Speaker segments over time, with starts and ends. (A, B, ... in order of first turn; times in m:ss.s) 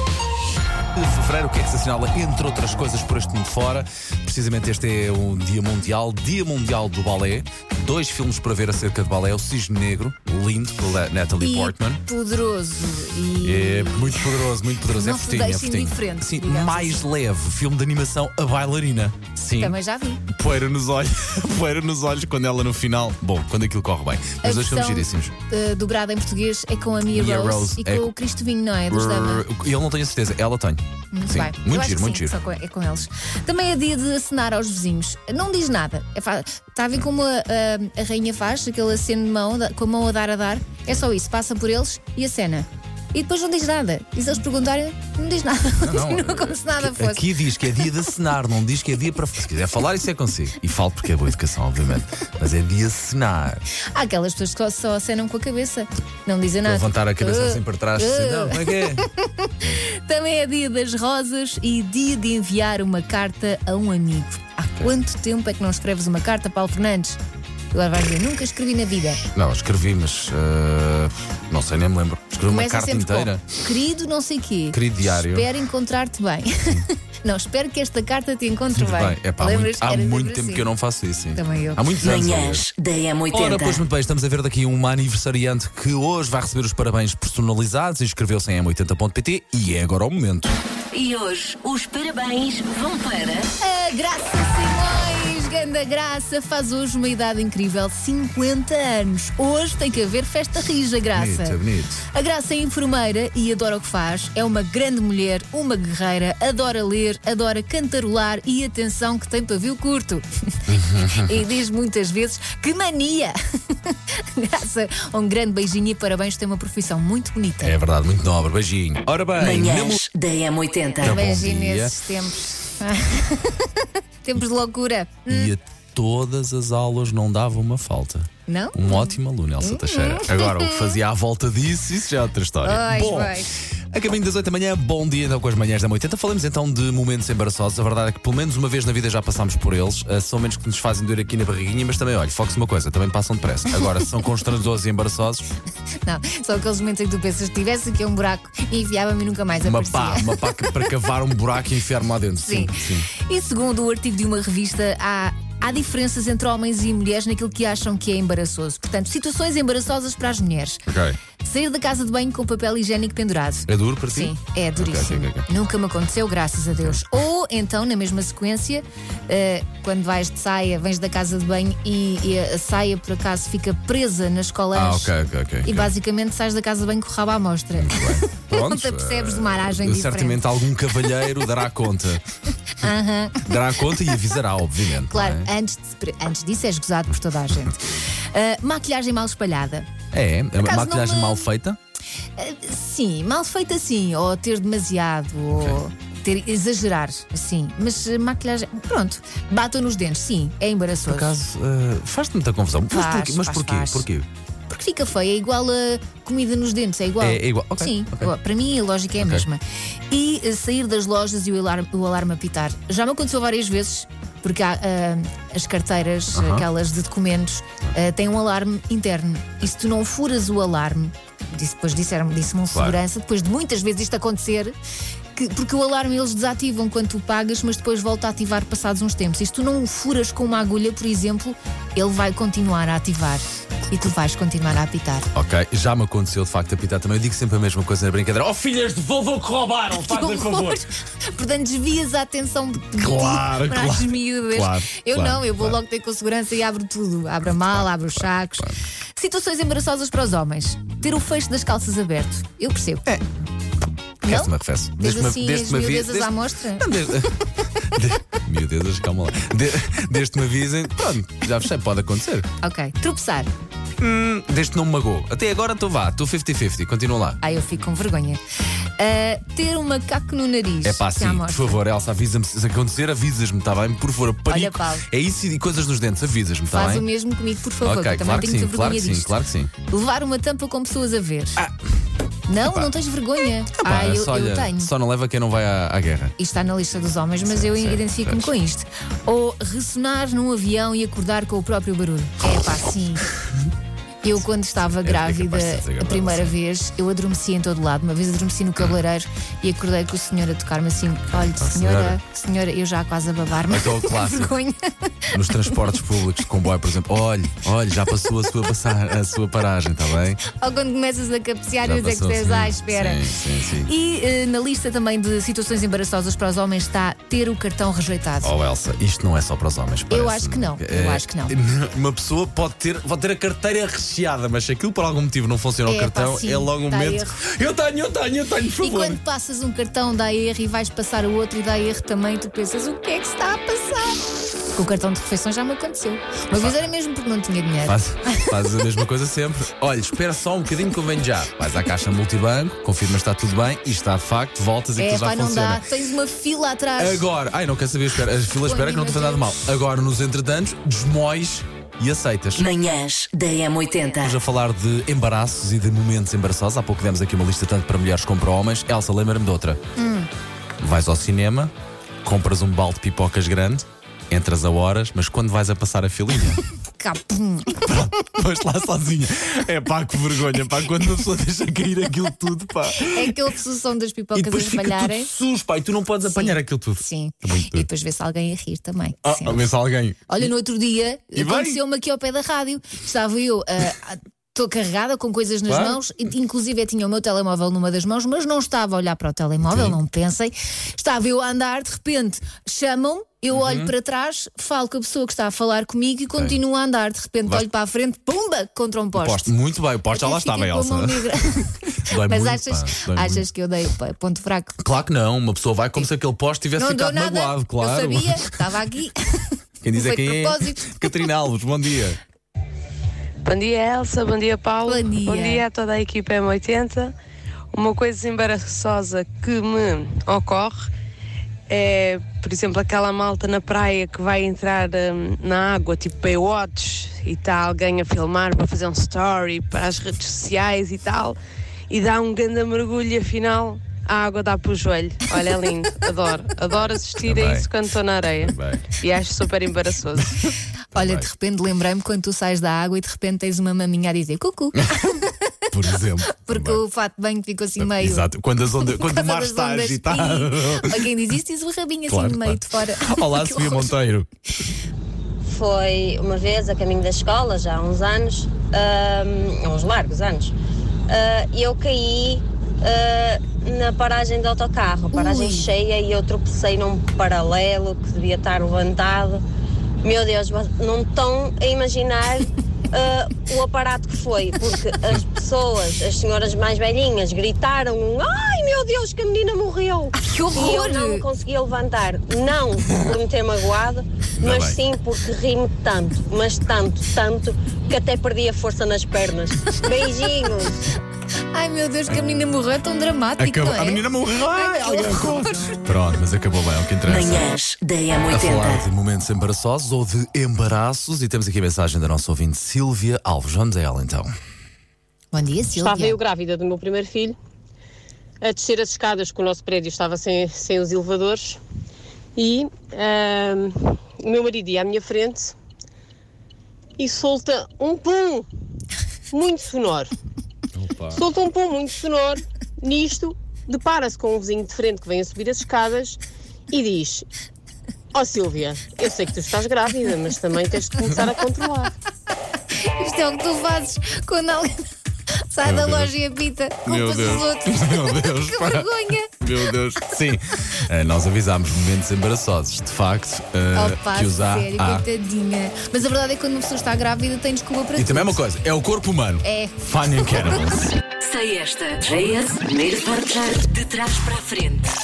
0:01.0-0:12.0 A
0:11.4-0:17.1 B
0:13.4-0:19.8 A
0:19.6-0:20.2 B
0:20.3-0:25.3 A
0:24.4-0:29.4 B
0:27.1-0:28.1 A
0:28.9-0:32.4 A
0:31.1-0:47.2 B
0:45.8-0:53.6 A
0:53.9-1:07.2 B
0:56.6-0:59.0 A
1:07.7-1:09.2 B
1:09.3-1:13.6 A
1:12.4-1:20.7 B
1:14.7-1:15.5 A
1:18.7-1:22.7 A
1:21.3-1:21.8 B
1:22.0-1:23.8 C
1:23.3-1:30.5 A
1:30.9-1:33.5 C
1:33.6-1:41.6 B
1:41.1-1:42.0 A
1:42.1-1:57.8 B
1:50.7-1:51.4 A
1:57.6-2:00.0 A
1:59.4-2:01.2 C
2:01.0-2:01.9 A
2:01.0-2:05.5 B
2:05.3-2:25.4 A
2:08.5-2:11.0 B
2:12.6-2:13.5 B
2:26.0-2:30.7 B
2:29.6-2:33.1 A
2:32.4-2:40.8 B
2:40.9-2:41.2 A
2:41.4-3:00.4 B
2:43.7-2:45.4 A
2:54.7-2:55.9 A
2:57.8-3:02.2 A
3:02.7-3:04.3 B
3:03.4-3:05.5 A
3:05.1-3:09.9 B
3:10.1-3:11.8 A
3:10.6-3:11.5 B
3:12.4-3:21.3 B
3:21.0-3:24.3 A
3:22.9-3:24.0 B
3:24.7-3:44.8 B
3:27.2-3:28.3 A
3:29.2-3:29.5 A
3:36.3-3:36.6 A
3:42.7-3:43.0 A
3:45.3-3:55.3 B
3:55.3-4:00.8 A
4:00.0-4:13.0 B
4:02.9-4:05.8 A
4:07.5-4:08.8 A
4:14.2-4:16.9 B
4:14.3-4:22.5 A
4:22.6-4:23.5 B
4:24.0-4:27.4 A
4:27.4-4:28.4 B
4:29.0-4:31.8 B
4:30.8-4:37.1 A
4:34.5-4:35.0 B
4:36.7-4:39.3 B
4:37.8-4:39.7 A
4:39.9-4:41.6 B
4:41.6-4:41.9 A
4:42.5-4:44.9 B
4:42.6-4:42.9 A
4:43.7-4:46.3 A
4:46.4-4:53.3 B
4:47.4-4:48.5 A
4:54.2-5:05.9 B
4:55.0-4:56.5 A
5:01.6-5:02.2 A
5:03.7-5:04.6 A
5:05.3-5:10.4 A
5:10.4-5:13.2 B
5:11.8-5:13.9 A
5:13.8-5:18.5 B
5:18.4-5:29.2 A
5:20.1-5:21.6 B
5:25.8-5:27.3 B
5:28.8-5:34.2 B
5:34.7-5:38.6 B
5:37.8-5:45.8 A
5:45.0-5:47.2 B
5:47.0-5:52.7 A
5:48.4-5:49.6 B
5:52.6-5:54.4 C
5:54.2-5:59.8 A
6:00.0-6:00.3 B
6:00.8-6:01.7 A
6:02.2-6:06.6 A
6:07.0-6:08.0 B
6:07.7-6:13.5 A
6:12.9-6:15.3 B
6:14.3-6:17.8 A
6:16.2-6:19.7 B
6:19.2-6:20.5 A
6:20.3-6:39.5 B
6:21.3-6:21.8 A
6:25.7-6:26.0 A
6:29.6-6:30.0 A
6:33.5-6:33.9 A
6:36.3-6:36.6 A
6:39.1-6:43.5 A
6:40.1-6:44.8 B
6:44.8-6:48.6 A
6:46.8-6:51.2 B
6:49.8-6:52.2 A
6:53.4-6:57.1 D
6:54.8-6:55.6 B
6:57.7-7:00.9 D
7:01.7-7:11.4 D
7:11.9-7:20.2 D
7:17.2-7:17.8 A
7:18.4-7:19.0 A
7:20.2-7:21.3 A
7:20.9-7:25.5 B
7:24.8-7:25.1 A
7:25.7-7:26.8 A
7:26.4-7:28.3 B
7:27.8-7:31.1 A
7:28.8-7:33.9 B
7:32.1-7:34.7 A
7:35.4-7:40.5 E
7:41.1-7:49.4 E
7:45.1-7:45.7 B
7:50.0-8:00.0 E
7:52.0-7:52.4 F
8:00.0-8:01.2 F
8:00.2-8:01.2 B
8:01.2-8:09.4 E
8:02.4-8:03.0 F
8:04.4-8:04.8 A
8:09.3-8:10.7 F
8:10.3-8:10.6 E
8:11.5-8:15.8 B
8:13.4-8:17.5 A
8:17.0-8:18.8 C
8:18.3-8:24.3 A
8:25.3-8:26.2 B
8:25.7-8:27.4 F
8:28.4-8:31.6 F
8:32.4-8:35.5 F
8:37.0-8:38.5 F
8:39.3-8:40.1 F
8:40.7-8:41.3 A
8:41.1-8:47.2 F
8:48.1-8:51.9 F
8:52.8-8:54.7 B
8:55.5-8:59.4 B
8:55.6-8:56.1 A
8:56.8-9:05.0 A
9:03.7-9:08.4 B
9:08.0-9:11.0 A
9:09.4-9:09.8 B
9:11.2-9:14.9 C